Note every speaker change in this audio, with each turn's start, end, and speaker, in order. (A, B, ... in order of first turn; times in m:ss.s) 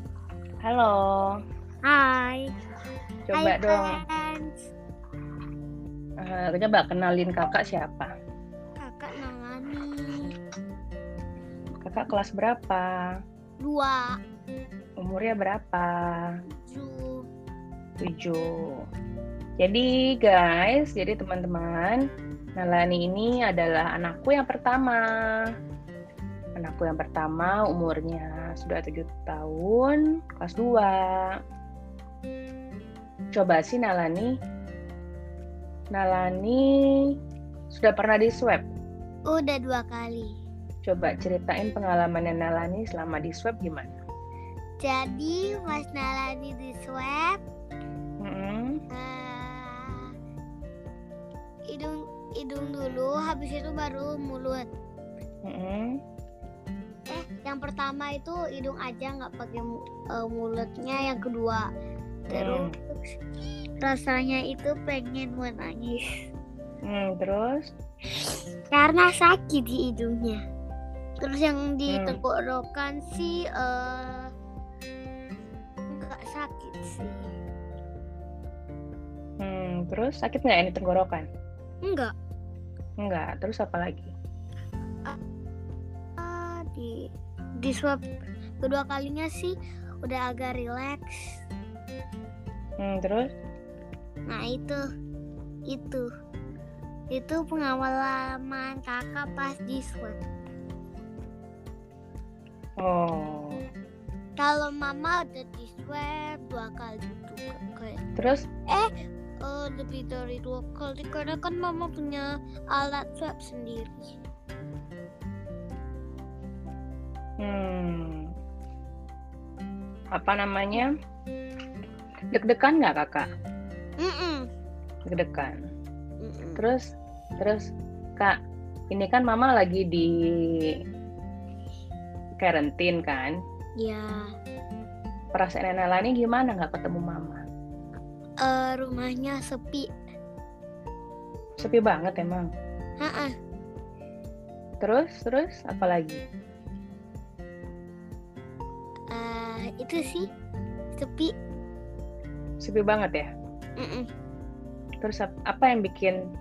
0:00.6-0:01.3 A
0:01.8-0:02.5 B
0:03.3-0:04.0 A
0:03.3-0:04.5 B
0:06.2-0:08.1 A
0:08.8-0:10.3 B
0:11.8-0:12.9 A
0:13.6-0:14.1 B
0:15.0-0:15.9 A
0:16.6-0:17.2 B
0:18.0-0:18.5 A
0:19.6-0:22.0 A
0:22.6-0:25.1 A
0:26.6-0:31.3 A
0:33.3-0:34.3 A
0:35.9-0:37.1 A
0:37.7-0:38.7 A
0:39.3-0:40.3 B
0:40.8-0:44.0 A
0:44.8-0:47.4 B
0:48.2-0:48.8 A
0:48.9-0:50.1 B
0:51.7-0:54.6 B
0:55.4-0:55.9 A
0:57.1-1:01.6 B
1:02.3-1:06.0 B
1:02.3-1:02.7 A
1:06.8-1:07.7 A
1:08.7-1:10.4 B
1:11.2-1:14.3 B
1:11.9-1:12.2 A
1:15.9-1:17.2 B
1:19.4-1:21.3 A
1:21.8-1:22.1 B
1:23.0-1:24.1 A
1:26.2-1:27.1 B
1:27.6-1:28.1 B
1:28.6-1:31.4 B
1:32.8-1:33.3 A
1:34.3-1:34.8 B
1:35.7-1:36.1 B
1:37.1-1:40.2 B
1:42.8-1:43.6 A
1:44.4-1:48.0 B
1:48.2-1:48.4 A
1:49.4-1:54.2 B
1:57.4-1:58.2 A
2:00.1-2:00.9 A
2:02.3-2:03.3 A
2:04.0-2:04.4 B
2:05.1-2:05.6 A
2:06.2-2:06.6 B
2:06.6-2:06.8 A
2:07.4-2:08.4 A
2:08.9-2:10.2 A
2:12.4-2:13.3 A
2:13.8-2:14.3 B
2:15.3-2:17.4 A
2:18.4-2:19.9 B
2:21.6-2:22.5 A
2:23.0-2:23.3 B
2:24.8-2:26.2 A
2:29.1-2:30.2 B
2:31.0-2:31.3 B
2:32.6-2:33.3 A
2:33.8-2:34.1 B
2:35.0-2:36.2 A